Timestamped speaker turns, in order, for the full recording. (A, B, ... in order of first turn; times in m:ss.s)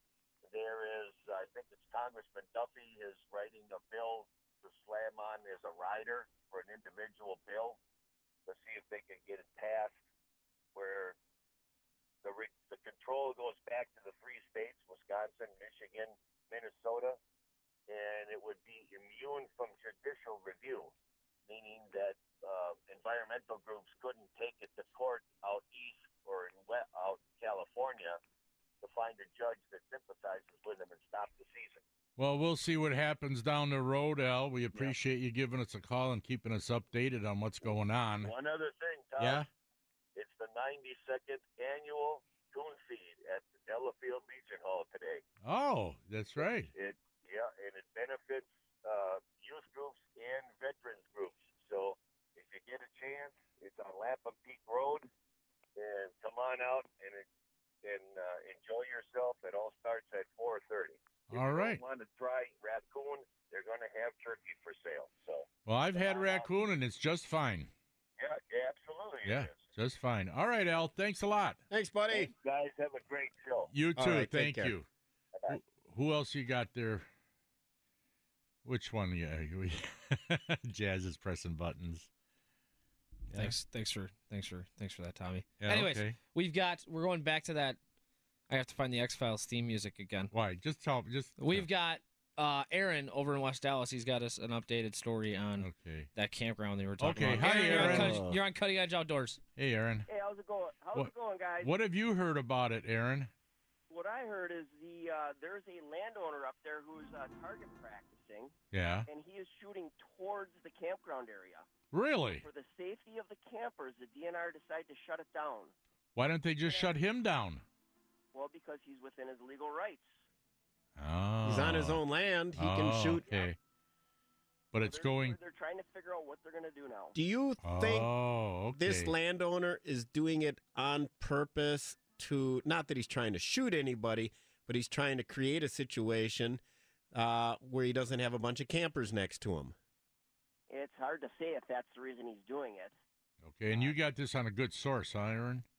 0:00.4-0:07.8 A
0:08.5-0:10.0 A
0:10.8-0:11.2 A
0:12.2-0:17.2 A
0:17.9-0:20.9 A
0:21.5-0:28.2 A
0:28.8-0:31.8 A
0:32.2-0:38.3 B
0:38.2-0:39.4 A
0:39.2-0:39.5 B
0:40.2-0:45.2 A
0:45.4-0:46.7 B
0:46.4-0:55.1 A
0:55.8-0:57.3 A
0:57.8-1:06.5 A
1:01.3-1:01.8 B
1:05.7-1:07.7 B
1:08.2-1:09.6 A
1:09.2-1:11.6 B
1:11.7-1:12.3 C
1:12.1-1:13.7 A
1:13.7-1:14.9 B
1:14.0-1:14.7 C
1:15.5-1:17.1 B
1:18.6-1:22.1 B
1:23.3-1:27.8 D
1:25.6-1:26.2 B
1:28.5-1:30.3 D
1:30.3-1:31.7 B
1:31.4-1:39.4 D
1:35.6-1:36.1 B
1:37.0-1:38.3 B
1:37.3-1:38.4 C
1:39.6-1:40.1 B
1:40.1-1:41.7 E
1:41.0-1:43.3 B
1:43.9-1:48.6 E
1:48.7-1:49.1 B
1:49.1-1:51.7 E
1:51.9-1:52.5 B
1:52.3-1:55.7 E
1:56.2-1:57.6 B
1:56.6-1:56.9 E
1:58.3-2:00.2 E
2:01.0-2:02.0 B
2:01.4-2:03.3 C
2:02.6-2:03.6 B
2:04.7-2:05.4 B
2:04.8-2:07.2 E
2:07.1-2:08.1 C
2:07.6-2:09.1 B
2:08.7-2:16.6 C
2:17.1-2:19.8 C
2:20.7-2:23.0 E
2:23.4-2:25.6 B